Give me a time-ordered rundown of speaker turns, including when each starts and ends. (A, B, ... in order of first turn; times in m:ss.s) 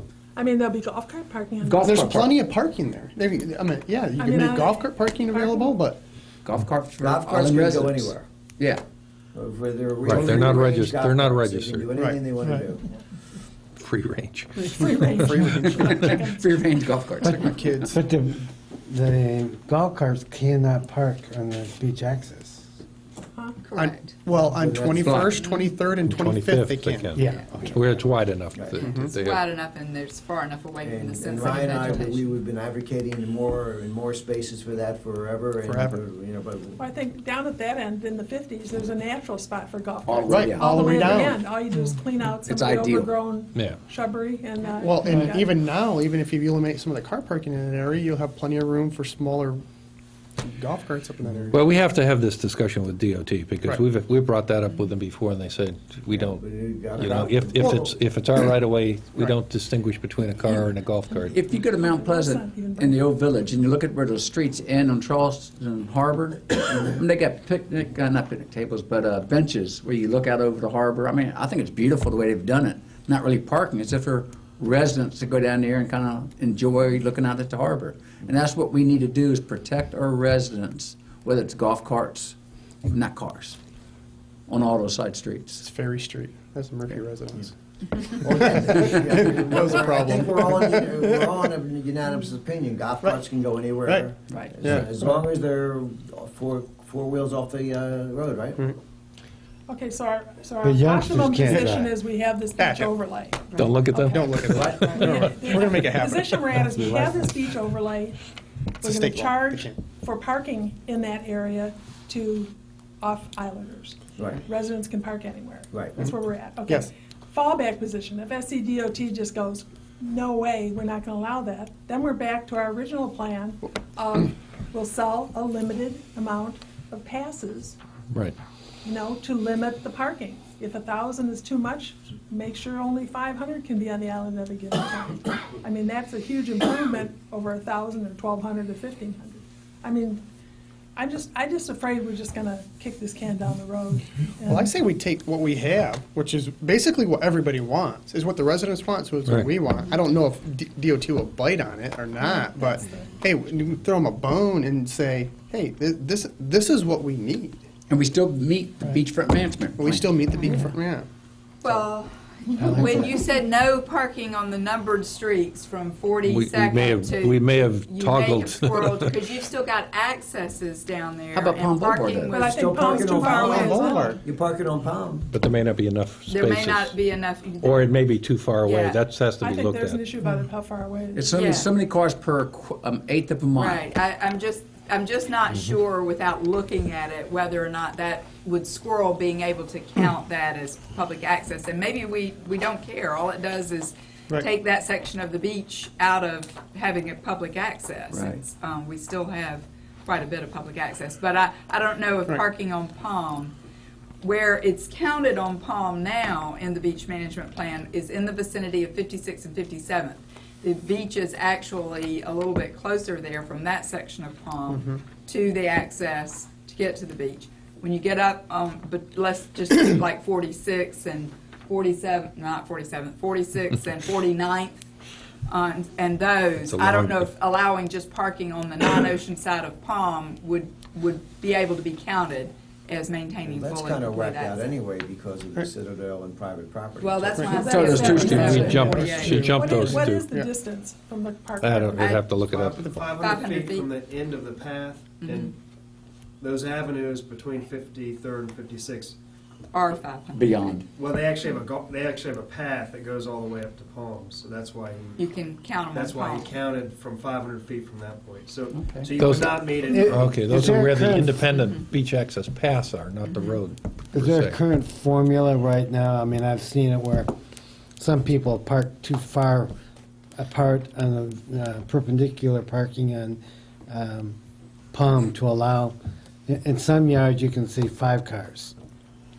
0:00.3-0:02.0 A
0:01.6-0:02.4 B
0:01.8-0:06.0 C
0:04.2-0:05.7 A
0:06.4-0:08.8 B
0:07.0-0:08.3 D
0:09.3-0:12.8 D
0:10.0-0:11.9 E
0:10.2-0:10.7 C
0:11.9-0:12.7 C
0:13.8-0:15.1 E
0:14.7-0:16.8 A
0:14.8-0:16.2 C
0:15.5-0:17.7 B
0:17.2-0:18.0 C
0:17.9-0:22.7 F
0:23.3-0:23.6 A
0:23.6-0:24.1 G
0:23.7-0:27.8 C
0:24.4-0:25.4 F
0:25.0-0:25.4 B
0:25.3-0:25.8 G
0:26.0-0:29.4 E
0:27.2-0:27.6 G
0:28.5-0:28.8 D
0:28.8-0:29.1 C
0:29.1-0:32.3 G
0:30.8-0:36.8 D
0:35.6-0:36.0 C
0:36.8-0:45.5 A
0:40.0-0:41.3 B
0:40.3-0:41.4 C
0:42.4-0:43.1 B
0:44.8-0:49.6 C
0:50.4-0:51.7 C
0:51.5-0:56.4 E
0:56.1-0:57.9 D
0:57.0-1:01.4 E
0:57.6-0:57.8 C
1:01.3-1:23.6 B
1:01.5-1:03.0 A
1:24.5-1:25.6 B
1:25.6-1:27.5 C
1:28.2-1:38.6 D
1:28.3-1:31.5 C
1:33.8-1:34.1 C
1:34.3-1:34.7 B
1:34.6-1:35.2 C
1:39.7-1:48.2 A
1:40.6-1:41.9 F
1:42.6-1:42.9 C
1:43.6-1:45.6 E
1:44.1-1:47.1 C
1:48.8-2:07.8 A
1:48.8-1:49.8 C
1:54.2-1:54.4 D
1:55.7-1:56.0 D
2:08.1-2:08.4 E
2:08.8-2:20.2 A
2:21.0-2:24.7 A
2:24.4-2:37.6 C
2:32.3-2:33.0 A
2:37.9-2:40.6 B
2:39.8-2:41.1 C
2:40.3-2:40.7 G
2:41.6-2:52.7 G
2:42.6-2:43.3 F
2:46.2-2:49.3 E
2:51.3-2:52.4 B
2:52.3-2:54.2 A
2:52.5-2:55.3 D
2:53.3-2:54.2 C
2:53.4-2:54.2 G
2:55.3-2:57.0 E
2:56.3-2:58.0 G
2:57.6-3:00.0 E
2:58.6-2:59.0 G
2:59.4-3:01.5 A
3:01.1-3:03.8 B
3:01.3-3:01.7 G
3:03.5-3:23.5 G
3:18.1-3:18.4 B
3:24.2-3:44.8 G
3:45.5-3:54.7 G
3:46.6-3:47.2 E
3:53.4-3:59.2 D
3:57.0-3:59.4 G
3:57.5-4:02.1 A
3:57.5-3:58.7 B
3:58.1-4:00.5 C
3:58.3-4:00.3 E
4:01.6-4:02.9 E
4:02.0-4:05.5 H
4:02.9-4:04.0 G
4:05.2-4:05.5 G
4:06.4-4:09.2 H
4:09.7-4:10.8 G
4:10.3-4:10.8 B
4:10.9-4:15.3 H
4:15.2-4:16.5 G
4:15.9-4:20.6 H
4:18.7-4:19.1 B
4:19.2-4:24.6 E
4:19.8-4:21.4 F
4:23.3-4:23.6 G
4:24.1-4:27.3 F
4:28.0-4:29.7 F
4:30.4-4:34.4 F
4:34.9-4:36.0 F
4:36.5-4:38.7 F